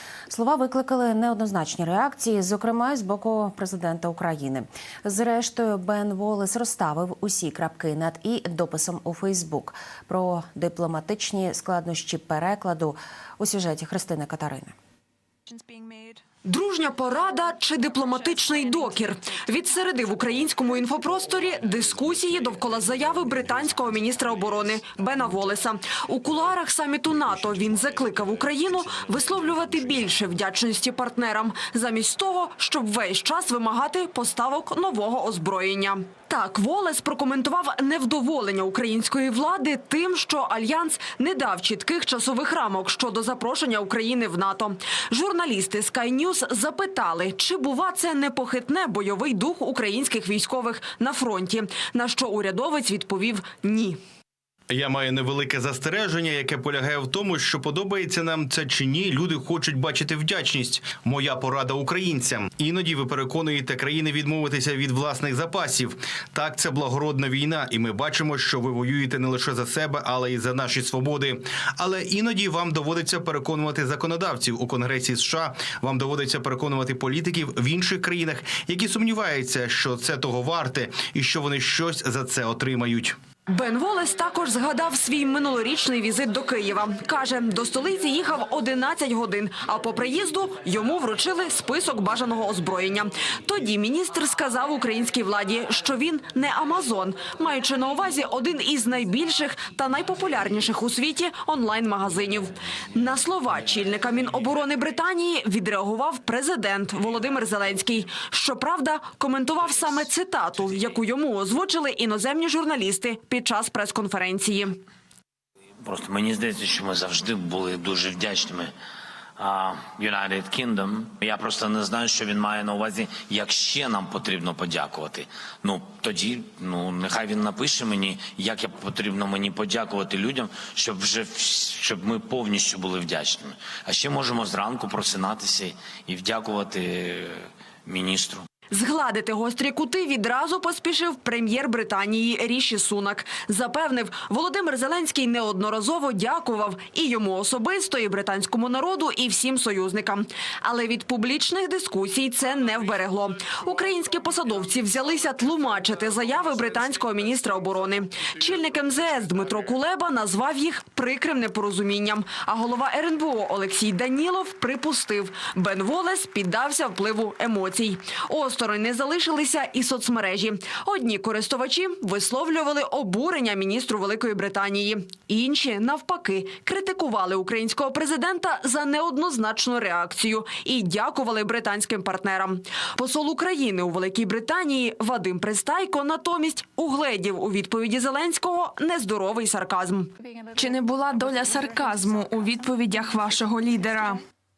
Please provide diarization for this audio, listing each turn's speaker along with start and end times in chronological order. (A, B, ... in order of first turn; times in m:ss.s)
0:00.3-0:14.7 A
0:15.5-0:16.2 B
0:16.4-0:54.0 C
0:54.7-1:23.2 D
1:23.5-1:54.8 C
1:55.8-1:58.7 E
1:59.4-2:18.4 E
2:18.7-3:10.1 C
3:10.5-3:14.2 B